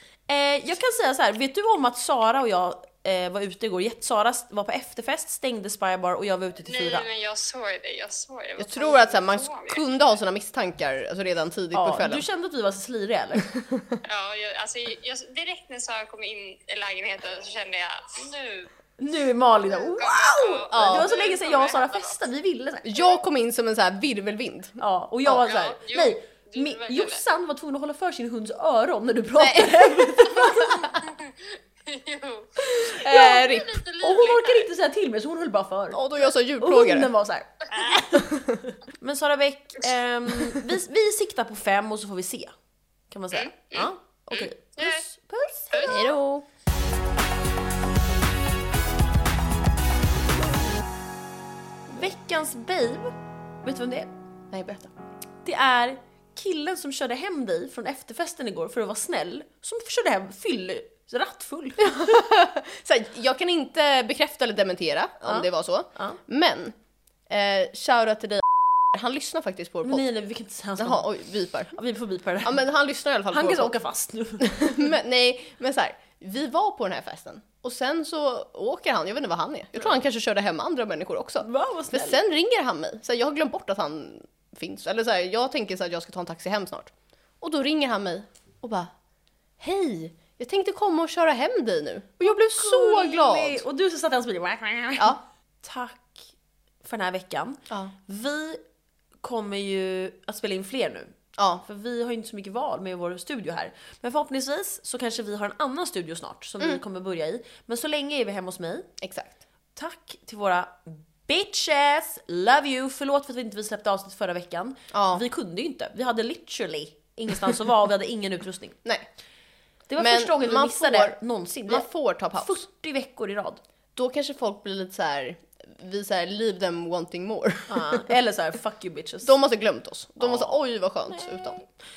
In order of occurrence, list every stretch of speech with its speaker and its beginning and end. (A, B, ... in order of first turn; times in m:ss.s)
0:00.3-0:07.0 A
0:06.7-0:09.8 B
0:08.6-0:12.2 C
0:11.7-0:13.5 A
0:13.5-0:14.0 C
0:14.0-0:18.7 B
0:19.0-0:23.1 A
0:19.9-0:22.2 B
0:20.7-0:21.2 C
0:22.8-0:25.4 C
0:24.8-0:30.9 A
0:25.4-0:27.2 B
0:29.4-0:31.1 C
0:31.1-0:34.7 B
0:32.6-0:33.8 C
0:33.1-0:33.4 A
0:34.0-0:42.5 A
0:35.9-0:37.1 C
0:38.1-0:38.6 C
0:43.1-0:46.1 A
0:43.3-0:45.0 B
0:45.7-0:46.1 B
0:45.8-0:46.4 C
0:51.9-0:54.1 A
0:54.5-0:54.9 C
0:55.4-1:01.9 A
1:01.8-1:06.7 C
1:05.2-1:06.2 A
1:07.3-1:10.0 C
1:09.8-1:11.1 A
1:10.8-1:11.7 C
1:11.7-1:12.6 A
1:12.4-1:13.7 C
1:13.3-1:14.7 A
1:14.4-1:28.9 C
1:21.4-1:22.2 A
1:29.6-1:33.6 C
1:32.2-1:36.3 A
1:36.8-1:38.6 A
1:39.2-1:48.9 A
1:41.4-1:41.6 C
1:49.0-1:49.4 C
1:49.8-1:58.8 A
1:54.9-1:55.2 C
1:59.9-2:03.6 A
2:00.0-2:02.6 C
2:03.9-2:08.0 C
2:07.7-2:09.3 A
2:09.2-2:11.6 C
2:10.2-2:10.6 A